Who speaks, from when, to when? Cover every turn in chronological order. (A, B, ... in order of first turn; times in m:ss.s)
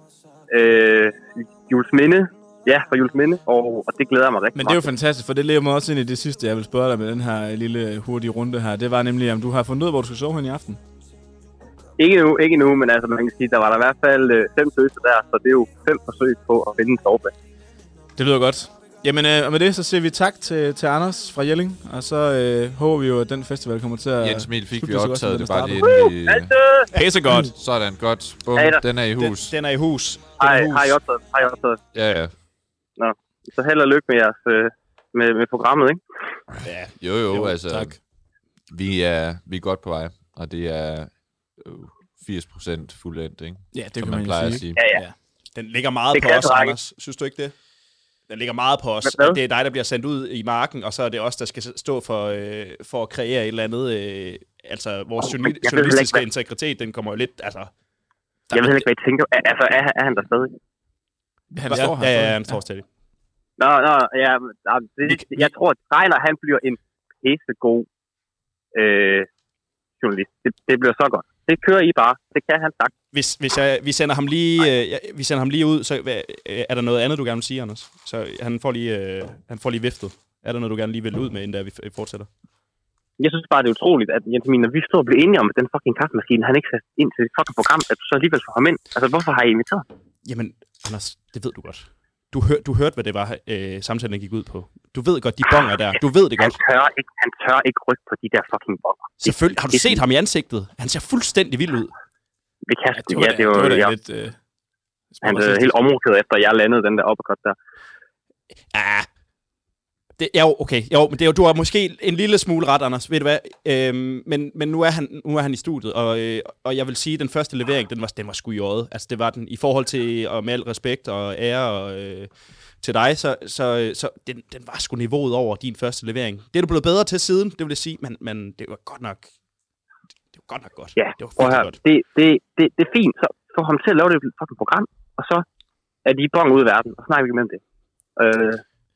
0:00.5-0:04.9 A
0:04.6-0:10.8 B
0:12.0-0:17.3 A
0:18.2-0:25.9 B
0:24.2-0:26.5 C
0:25.8-0:26.9 A
0:26.9-0:27.5 B
0:27.3-0:29.6 C
0:28.6-0:28.8 A
0:29.2-0:31.0 D
0:30.4-0:31.8 A
0:31.9-0:32.3 C
0:33.0-0:36.0 A
0:36.6-0:37.5 D
0:37.0-0:38.0 C
0:38.7-0:44.8 C
0:43.7-0:45.2 B
0:44.8-0:45.0 A
0:45.6-0:47.5 D
0:46.1-0:46.8 A
0:48.3-0:57.7 D
0:49.0-0:49.4 A
0:55.2-0:56.2 A
0:58.5-0:58.8 B
0:58.5-1:00.5 A
1:01.5-1:02.6 B
1:01.7-1:02.8 D
1:03.6-1:07.9 A
1:05.1-1:05.5 B
1:08.8-1:09.3 A
1:10.0-1:12.9 A
1:13.1-1:22.3 D
1:23.2-1:29.8 A
1:30.2-1:36.6 D
1:36.4-1:40.0 A
1:39.2-1:41.9 D
1:42.7-1:43.9 A
1:42.9-1:44.4 B
1:45.2-1:45.8 B
1:45.2-1:47.6 A
1:48.7-1:49.1 D
1:50.2-2:02.3 D
2:02.8-2:09.3 D
2:10.4-2:11.8 D
2:11.0-2:15.4 A
2:16.0-2:17.6 A
2:18.2-2:18.6 A